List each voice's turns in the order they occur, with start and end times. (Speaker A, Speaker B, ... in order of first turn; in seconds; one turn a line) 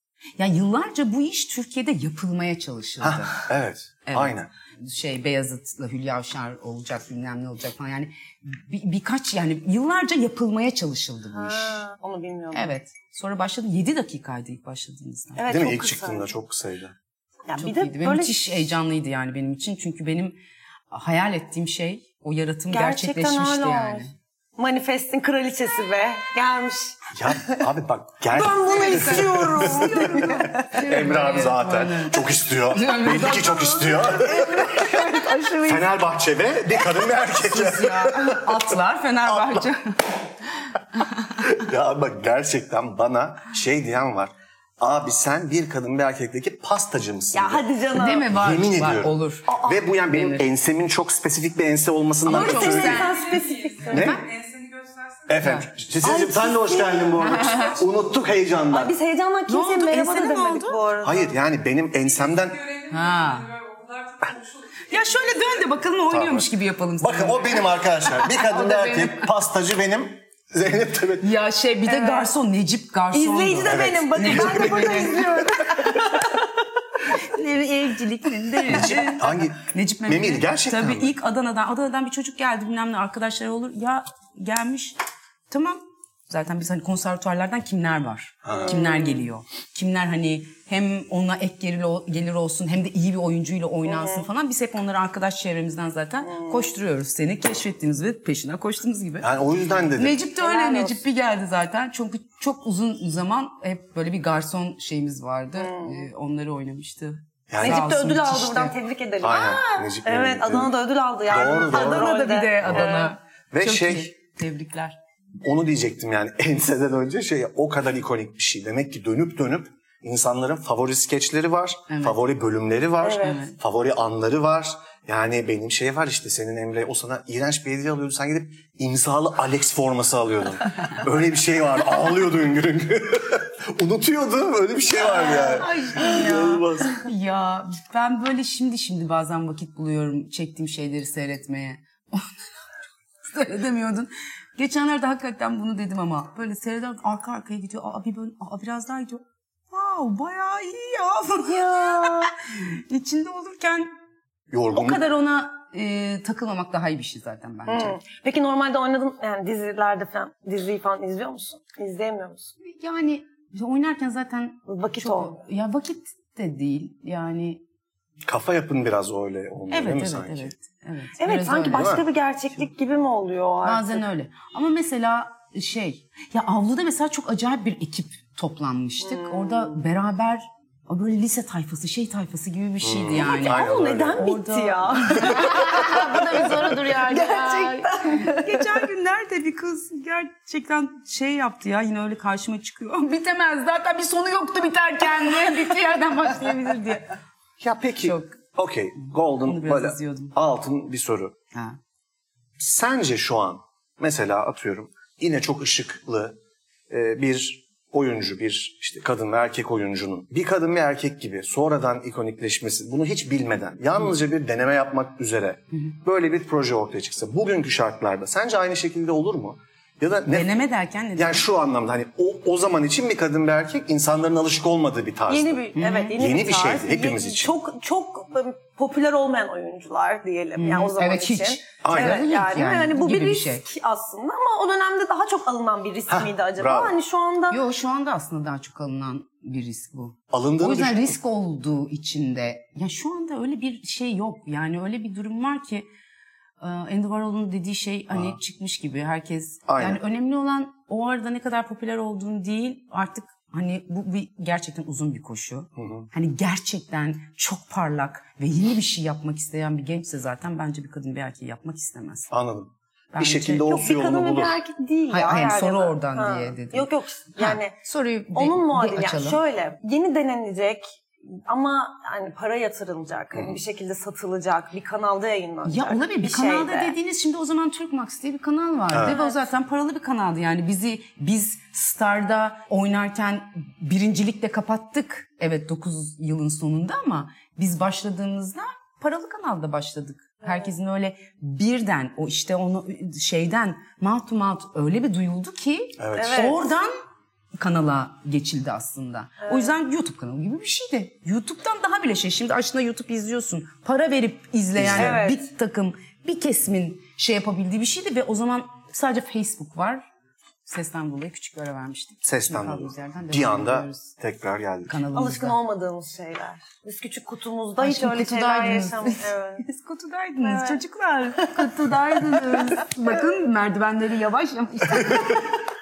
Speaker A: 0.4-3.5
Speaker B: 3.0-4.5
Speaker A: 4.0-11.8
Speaker C: 11.3-12.7
Speaker A: 12.5-15.4
Speaker C: 15.3-16.3
Speaker B: 15.5-16.9
Speaker C: 17.5-18.7
Speaker A: 17.6-20.4
Speaker A: 20.9-24.1
Speaker C: 22.7-24.1
Speaker C: 24.6-27.6
Speaker B: 27.1-39.7
Speaker C: 28.3-30.8
Speaker A: 28.6-34.0
Speaker C: 33.9-35.9
Speaker A: 37.3-40.0
Speaker A: 40.7-41.4
Speaker B: 41.4-47.7
Speaker C: 47.3-48.3
Speaker A: 47.9-49.5
Speaker B: 48.2-53.1
Speaker C: 49.5-49.8
Speaker A: 50.1-50.4
Speaker A: 52.2-54.3
Speaker C: 52.3-54.1
Speaker B: 53.9-54.3
Speaker B: 55.3-58.9
Speaker A: 55.4-55.7
Speaker C: 56.0-57.2
Speaker A: 57.2-57.8
Speaker C: 58.7-61.3
Speaker A: 59.5-60.8
Speaker B: 61.0-62.7
Speaker A: 62.9-63.6
Speaker A: 64.8-69.3
Speaker B: 66.1-66.5
Speaker B: 67.0-71.3
Speaker A: 71.2-75.4
Speaker C: 71.8-72.3
Speaker C: 73.1-76.4
Speaker B: 73.6-75.9
Speaker A: 77.1-85.0
Speaker B: 78.7-81.1
Speaker A: 85.5-99.3
Speaker B: 88.4-88.8
Speaker C: 88.8-89.0
Speaker C: 93.9-94.2
Speaker C: 96.3-96.7
Speaker B: 99.2-100.2
Speaker A: 99.9-108.7
Speaker C: 100.4-101.0
Speaker C: 105.6-106.1
Speaker B: 107.5-107.8
Speaker C: 107.6-113.1
Speaker B: 109.2-110.7
Speaker B: 111.3-112.1
Speaker A: 111.5-115.0
Speaker B: 112.6-112.9
Speaker B: 113.5-114.1
Speaker B: 115.4-137.1
Speaker A: 121.9-122.2
Speaker C: 123.0-123.5
Speaker A: 123.2-123.5
Speaker A: 135.0-142.5
Speaker A: 143.3-153.9
Speaker C: 151.5-152.3
Speaker B: 154.5-155.0
Speaker A: 154.7-158.0
Speaker C: 157.7-162.5
Speaker A: 162.6-167.6
Speaker C: 164.7-165.4
Speaker B: 168.2-170.5
Speaker A: 169.7-172.0
Speaker C: 171.2-174.0
Speaker B: 171.7-172.0
Speaker A: 173.6-197.1
Speaker C: 179.0-179.8
Speaker B: 182.8-184.3
Speaker C: 183.1-188.8
Speaker B: 197.6-201.3
Speaker A: 198.0-198.4
Speaker A: 199.4-200.3
Speaker A: 201.5-201.8
Speaker B: 202.6-206.4
Speaker B: 206.9-220.6
Speaker A: 220.3-221.4
Speaker B: 221.1-227.5
Speaker C: 225.3-237.6
Speaker A: 225.8-226.1
Speaker A: 230.6-233.6
Speaker B: 231.8-232.2
Speaker B: 236.1-236.9
Speaker A: 237.5-245.9
Speaker B: 240.3-241.2
Speaker A: 246.6-262.3
Speaker B: 248.1-248.4
Speaker B: 249.7-250.0
Speaker B: 255.8-256.1
Speaker B: 262.3-264.6
Speaker A: 263.1-263.7
Speaker C: 263.7-267.8
Speaker A: 265.1-269.4
Speaker C: 268.3-276.9
Speaker B: 273.3-273.6
Speaker A: 275.6-296.9
Speaker B: 278.9-279.1
Speaker C: 279.0-279.4
Speaker C: 290.4-290.7
Speaker B: 296.0-296.4
Speaker C: 296.1-296.6
Speaker A: 297.6-310.0
Speaker C: 299.4-299.7
Speaker B: 304.8-305.2
Speaker C: 304.9-305.4
Speaker A: 310.6-314.1
Speaker B: 312.2-315.0
Speaker A: 314.9-315.6
Speaker C: 315.1-319.6
Speaker A: 317.8-325.5
Speaker C: 320.4-320.8
Speaker C: 321.4-321.6